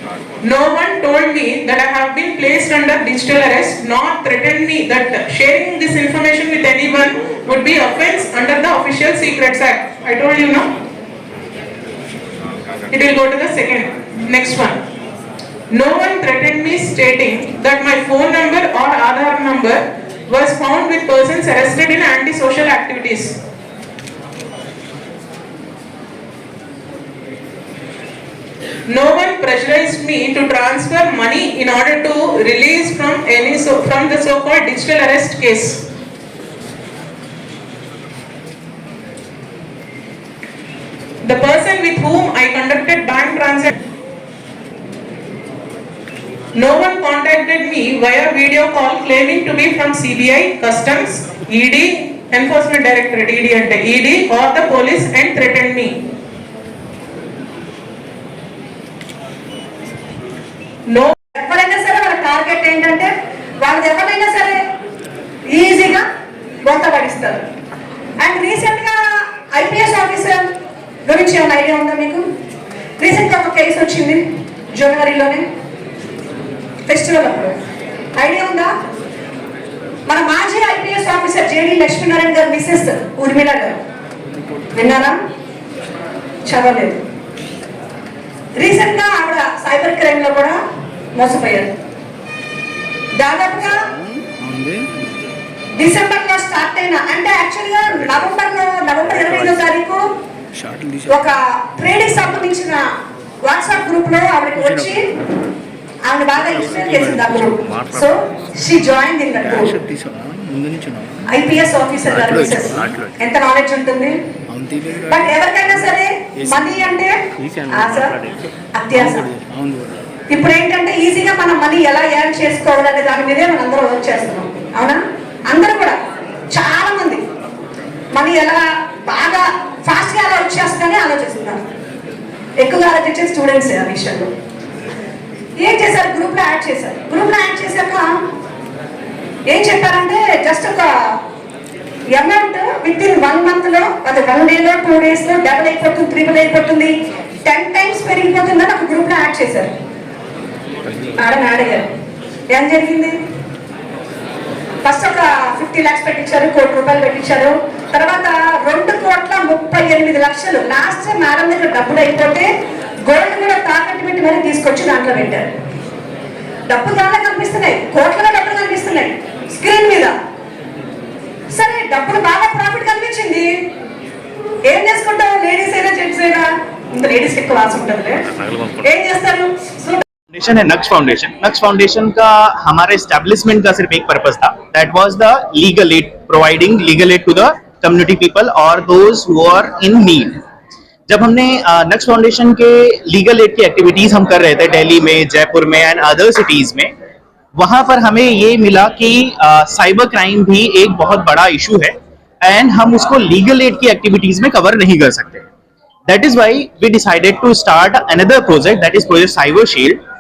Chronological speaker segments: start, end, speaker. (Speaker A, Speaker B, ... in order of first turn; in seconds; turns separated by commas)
Speaker A: 0.4-10.7, Speaker A: 12.9-14.8, Speaker A: 15.7-23.4, Speaker A: 28.9-35.8, Speaker A: 41.2-43.8, Speaker A: 46.5-55.9, Speaker A: 60.9-61.1, Speaker B: 61.3-64.6, Speaker B: 65.5-66.0, Speaker B: 66.6-67.4, Speaker B: 68.2-69.0, Speaker B: 69.5-70.5, Speaker B: 71.1-72.2, Speaker B: 73.0-75.5, Speaker B: 76.9-77.5, Speaker B: 78.2-78.7, Speaker B: 80.1-83.8, Speaker B: 84.7-85.2, Speaker B: 86.5-87.0, Speaker B: 88.6-90.6, Speaker B: 91.2-91.7, Speaker B: 93.2-93.8, Speaker C: 94.1-94.9, Speaker B: 95.8-100.0, Speaker C: 99.1-99.6, Speaker C: 100.6-101.2, Speaker B: 101.1-102.8, Speaker B: 103.4-105.0, Speaker C: 104.6-104.9, Speaker B: 106.1-109.8, Speaker C: 106.4-108.1, Speaker C: 109.4-111.2, Speaker B: 111.3-114.2, Speaker C: 112.1-113.1, Speaker C: 114.5-115.9, Speaker B: 115.1-117.2, Speaker C: 116.4-118.0, Speaker B: 117.7-119.3, Speaker C: 118.9-119.9, Speaker B: 120.3-126.0, Speaker B: 126.5-127.2, Speaker B: 128.1-131.6, Speaker B: 132.6-134.3, Speaker B: 135.6-138.1, Speaker B: 139.5-140.9, Speaker B: 142.1-146.9, Speaker B: 147.4-149.7, Speaker B: 151.2-151.9, Speaker B: 152.5-153.2, Speaker B: 154.8-162.5, Speaker B: 163.0-165.5, Speaker B: 166.7-170.1, Speaker B: 171.5-173.5, Speaker B: 174.7-180.0, Speaker D: 180.3-190.4, Speaker D: 191.1-196.9, Speaker D: 197.6-205.4, Speaker D: 206.1-210.0